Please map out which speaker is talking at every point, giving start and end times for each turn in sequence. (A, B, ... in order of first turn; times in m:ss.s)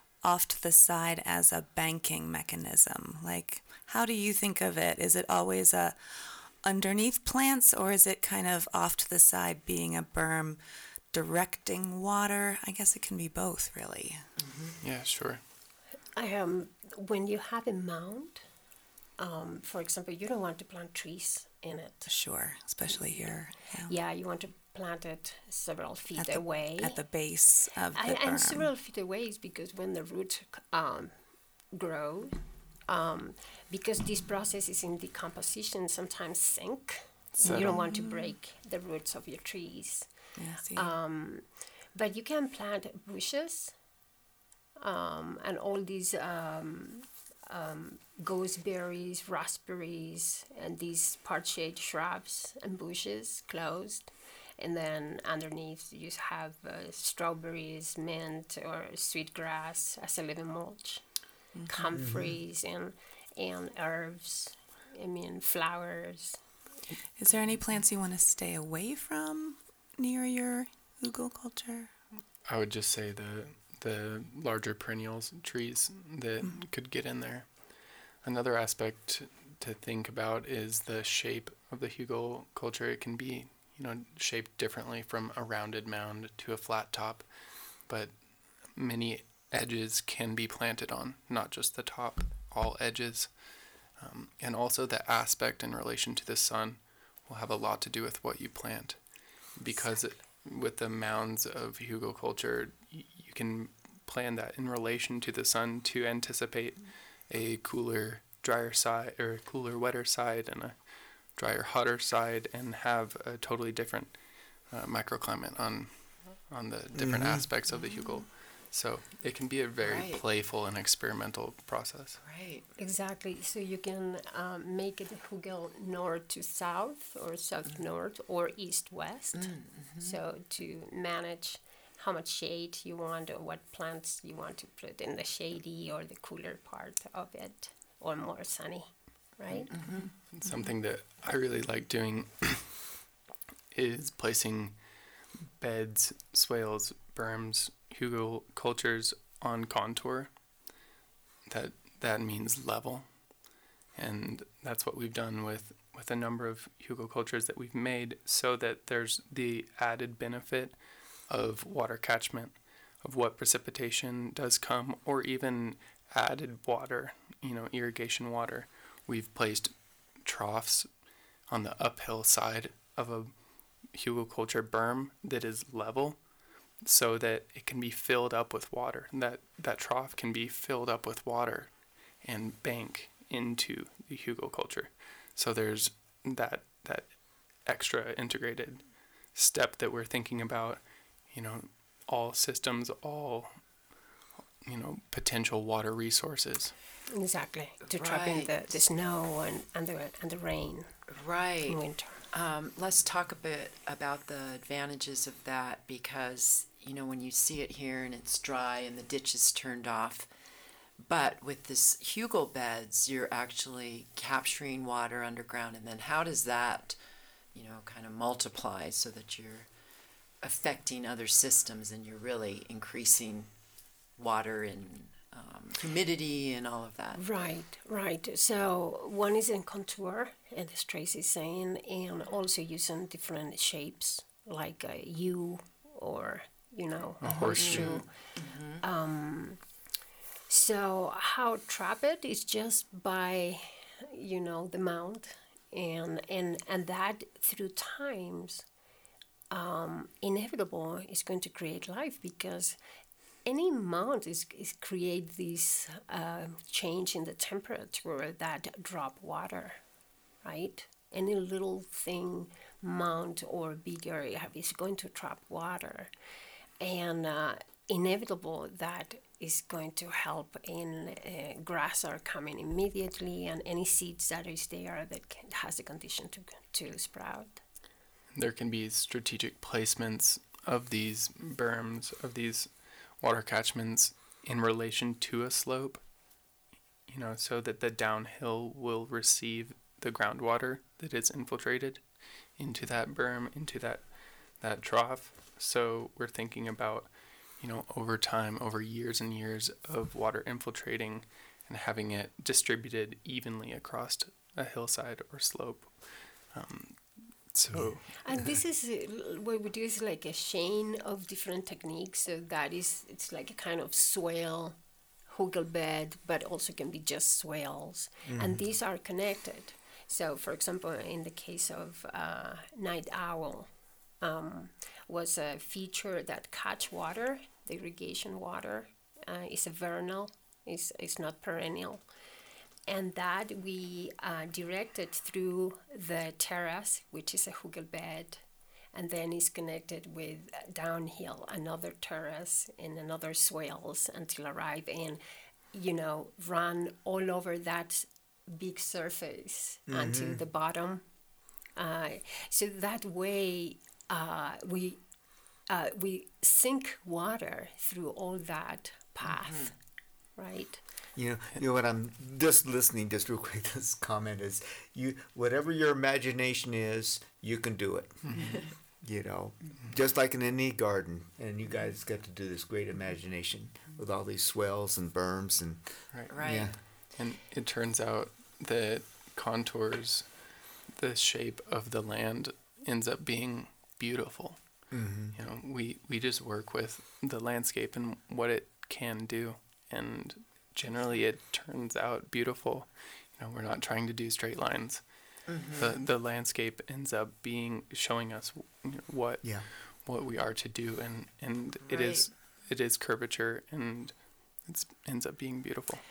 0:00.2-0:10.6 A
0:11.1-0:14.2 A
0:14.4-0:14.8 B
0:14.8-0:15.4 C
0:16.2-0:18.4 D
0:19.2-0:22.1 D
0:22.1-0:23.9 A
0:23.9-0:27.0 D
0:26.2-0:28.7 A
0:27.9-0:31.1 D
0:31.7-0:43.8 D
0:37.4-0:38.3 A
0:37.4-0:37.8 C
0:40.4-0:40.9 A
0:44.8-1:01.0 D
1:01.5-1:02.0 A
1:01.7-1:06.4 D
1:01.9-1:02.4 E
1:07.2-1:11.9 A
1:12.4-1:17.7 C
1:18.2-1:27.3 C
1:27.8-1:33.3 C
1:34.0-1:50.8 C
1:51.4-2:02.2 C
1:56.9-1:57.4 E
1:59.8-2:00.2 B
2:02.2-2:02.7 B
2:02.8-2:19.7 D
2:09.4-2:10.2 B
2:19.5-2:20.1 B
2:20.3-2:22.8 C
2:23.7-2:24.8 C
2:25.5-2:30.3 C
2:31.5-2:33.3 C
2:34.0-2:50.9 C
2:51.5-2:53.3 C
2:53.9-2:56.2 C
2:56.8-3:13.6 C
3:14.6-3:16.7 C
3:17.1-3:21.0 D
3:17.9-3:18.8 B
3:21.1-3:21.8 B
3:21.7-3:22.2 D
3:22.3-3:30.3 B
3:31.0-3:37.0 B
3:37.5-3:39.7 B
3:40.4-3:43.5 B
3:44.2-3:47.2 B
3:47.2-3:58.1 D
3:57.2-3:58.0 C
3:57.4-3:58.8 B
3:58.8-3:59.6 D
4:00.5-4:08.6 D
4:09.5-4:12.8 D
4:13.5-4:19.8 D
4:20.4-4:26.1 D
4:26.8-4:37.6 D
4:38.3-4:46.0 C
4:47.1-4:52.0 C
4:52.6-5:08.4 C
5:08.2-5:32.0 D
5:18.3-5:18.6 E
5:32.9-5:45.2 D
5:45.7-5:51.0 D
5:49.9-5:50.4 E
5:51.8-5:55.0 D
5:55.7-5:59.8 D
5:59.2-5:59.7 B
6:00.4-6:00.8 D
6:01.2-6:16.8 E
6:08.2-6:08.6 C
6:08.4-6:08.7 B
6:16.1-6:46.0 C
6:16.3-6:16.7 B
6:24.9-6:25.4 E
6:35.5-6:36.0 B
6:41.9-6:42.3 B